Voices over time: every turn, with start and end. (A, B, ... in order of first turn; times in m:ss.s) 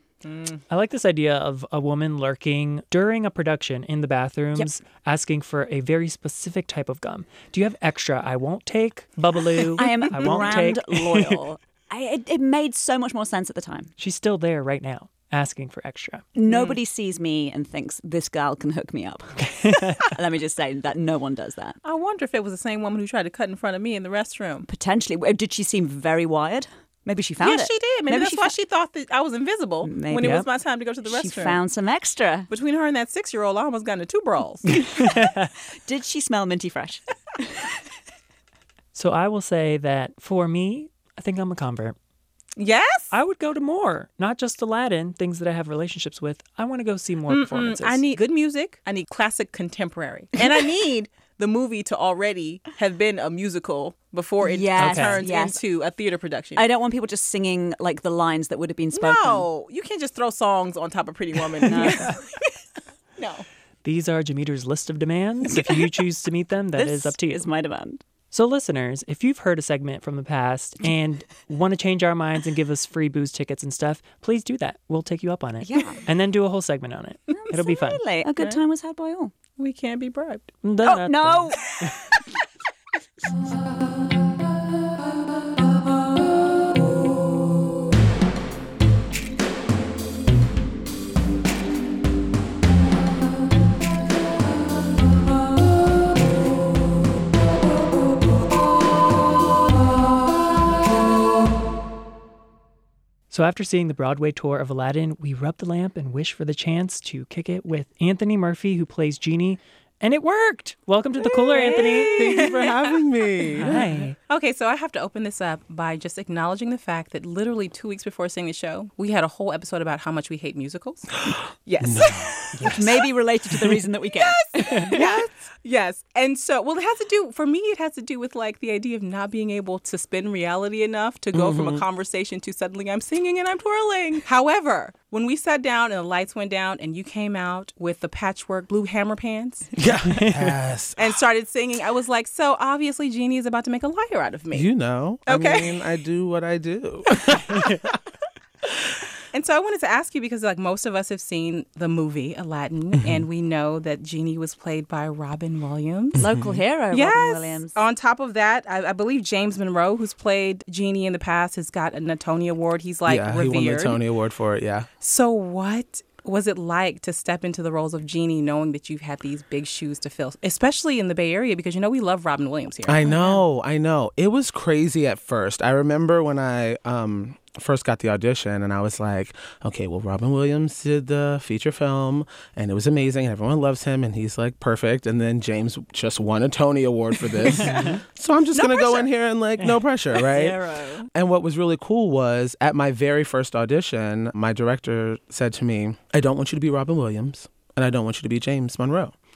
0:00.2-0:00.6 A
0:00.7-0:11.4 B
0:09.7-0:13.9 C
0:14.0-0:16.2 B
0:16.4-0:21.8 C
0:16.5-0:16.8 A
0:19.4-0:20.0 B
0:21.8-0:24.7 A
0:24.7-0:28.5 C
0:27.4-0:31.6 A
0:29.8-0:30.4 C
0:30.2-0:30.5 B
0:31.0-0:32.5 C
0:32.5-0:34.7 A
0:34.7-0:37.7 C
0:34.8-0:35.5 B
0:39.0-0:42.0 B
0:42.6-0:43.1 A
0:43.1-0:48.0 B
0:47.3-0:56.7 A
0:54.4-0:55.6 C
0:54.8-0:55.2 B
0:56.6-0:59.5 C
0:58.9-1:02.5 A
1:01.6-1:02.2 C
1:01.8-1:02.1 B
1:03.2-1:03.5 A
1:03.8-1:07.5 B
1:06.8-1:08.0 C
1:08.3-1:18.0 B
1:15.6-1:16.0 C
1:17.3-1:19.3 C
1:19.6-1:20.5 A
1:20.6-1:21.9 B
1:20.8-1:21.7 C
1:43.3-1:52.2 B
1:51.4-2:03.0 A
1:52.1-1:53.9 D
1:53.6-1:54.2 B
2:01.3-2:02.5 D
2:02.6-2:02.8 B
2:02.6-2:05.2 C
2:04.1-2:19.7 A
2:11.3-2:11.8 D
2:19.8-2:21.2 D
2:20.1-2:20.5 B
2:21.0-2:24.7 A
2:24.5-2:27.9 D
2:25.3-2:25.8 A
2:27.5-2:27.8 B
2:29.3-2:36.3 A
2:33.0-2:33.2 D
2:36.2-2:36.6 D
2:36.2-2:37.8 C
2:36.9-2:44.0 A
2:43.1-2:44.9 D
2:45.0-2:53.4 A
2:52.9-3:10.6 D
3:07.7-3:08.0 B
3:08.5-3:09.1 A
3:10.2-3:11.1 C
3:11.1-3:19.2 D